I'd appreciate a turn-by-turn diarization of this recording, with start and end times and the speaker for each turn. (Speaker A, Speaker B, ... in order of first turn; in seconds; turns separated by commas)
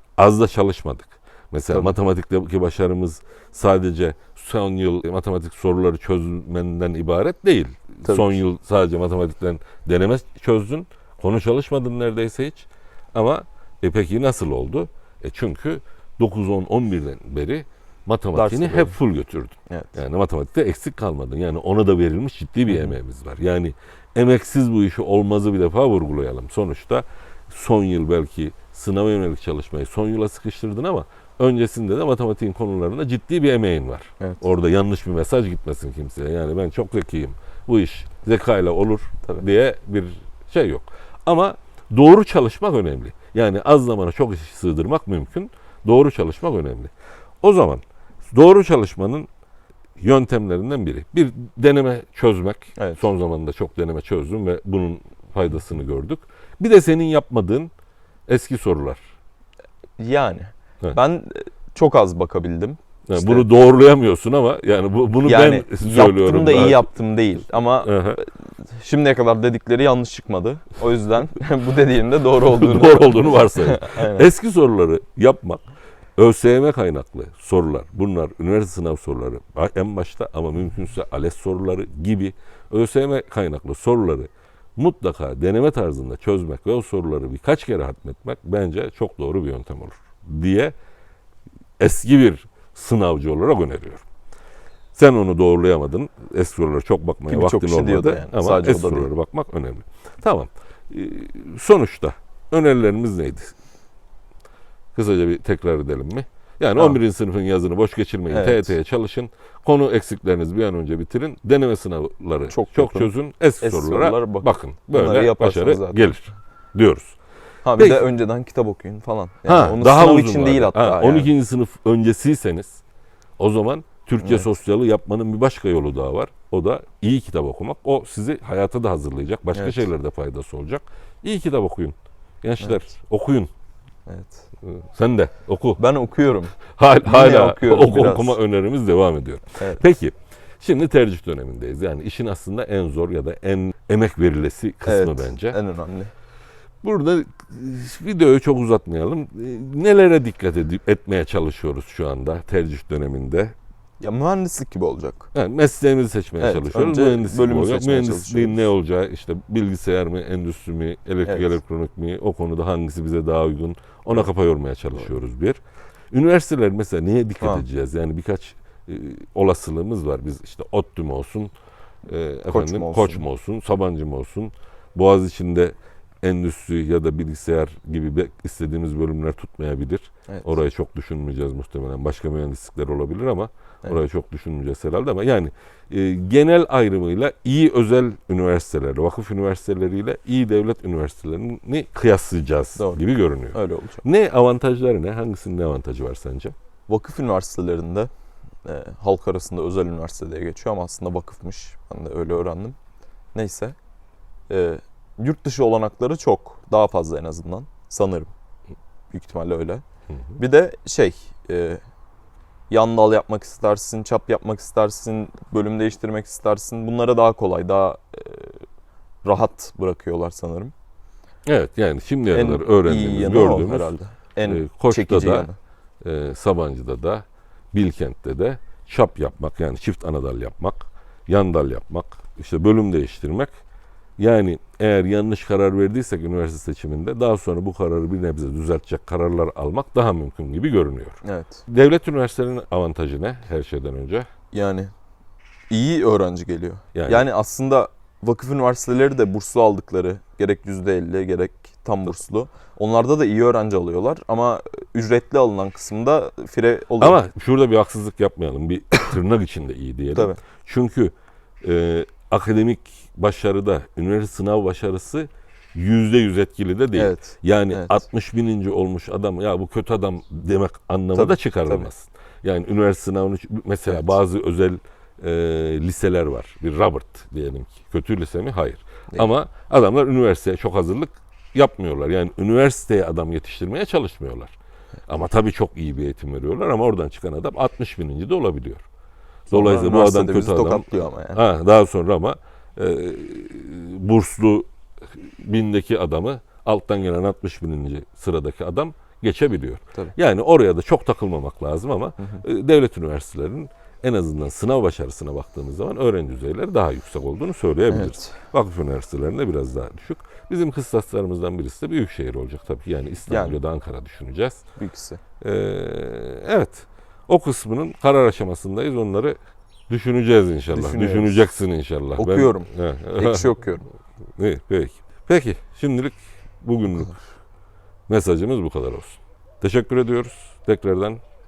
Speaker A: 0.2-49.3, Speaker B: 8.0-8.4, Speaker B: 18.3-19.0, Speaker B: 19.7-20.0, Speaker B: 22.7-22.9, Speaker A: 50.0-57.7, Speaker B: 52.8-53.0, Speaker A: 58.3-59.0, Speaker B: 60.0-63.5, Speaker A: 63.1-66.9, Speaker B: 65.2-74.3, Speaker A: 67.8-68.2, Speaker A: 72.4-75.6, Speaker A: 76.2-90.7, Speaker A: 91.8-94.0, Speaker A: 94.9-103.5, Speaker B: 97.3-99.1, Speaker A: 104.9-117.2, Speaker B: 108.3-108.8, Speaker B: 112.5-116.2, Speaker B: 117.6-121.3, Speaker A: 117.8-118.0, Speaker A: 119.5-122.8, Speaker A: 123.4-133.5, Speaker B: 124.2-124.5, Speaker B: 129.5-129.8, Speaker B: 132.6-132.8, Speaker B: 134.1-134.4, Speaker A: 134.6-135.8, Speaker B: 135.8-138.4, Speaker A: 136.8-145.6, Speaker B: 139.6-139.8, Speaker B: 144.8-146.1, Speaker A: 146.8-153.5, Speaker B: 154.0-155.3, Speaker A: 155.3-171.5, Speaker B: 156.4-158.7, Speaker B: 161.2-161.6, Speaker A: 172.1-196.5, Speaker B: 172.5-173.2, Speaker B: 192.8-194.0, Speaker B: 196.9-198.1, Speaker B: 198.6-202.8, Speaker B: 203.3-203.8, Speaker B: 204.5-208.3, Speaker B: 209.1-209.8, Speaker A: 210.1-210.4, Speaker B: 210.4-211.8, Speaker B: 212.7-218.6, Speaker B: 219.2-220.7, Speaker A: 221.4-223.9, Speaker B: 222.3-225.6, Speaker A: 224.4-225.5, Speaker A: 226.0-233.5, Speaker A: 234.2-244.3, Speaker B: 241.2-241.6, Speaker B: 244.5-244.9, Speaker B: 245.7-257.2, Speaker A: 246.9-247.2, Speaker A: 257.0-284.5, Speaker B: 260.1-260.4, Speaker B: 266.9-268.0, Speaker B: 271.1-271.9, Speaker B: 273.9-274.1, Speaker A: 285.1-288.8, Speaker A: 289.5-314.6, Speaker B: 289.5-291.4, Speaker B: 302.2-302.4, Speaker B: 307.9-308.4, Speaker B: 313.3-313.6, Speaker B: 314.8-315.2, Speaker A: 315.4-319.4, Speaker A: 319.9-323.5, Speaker B: 320.7-321.4, Speaker B: 322.2-323.9, Speaker A: 324.4-327.1, Speaker A: 328.1-331.2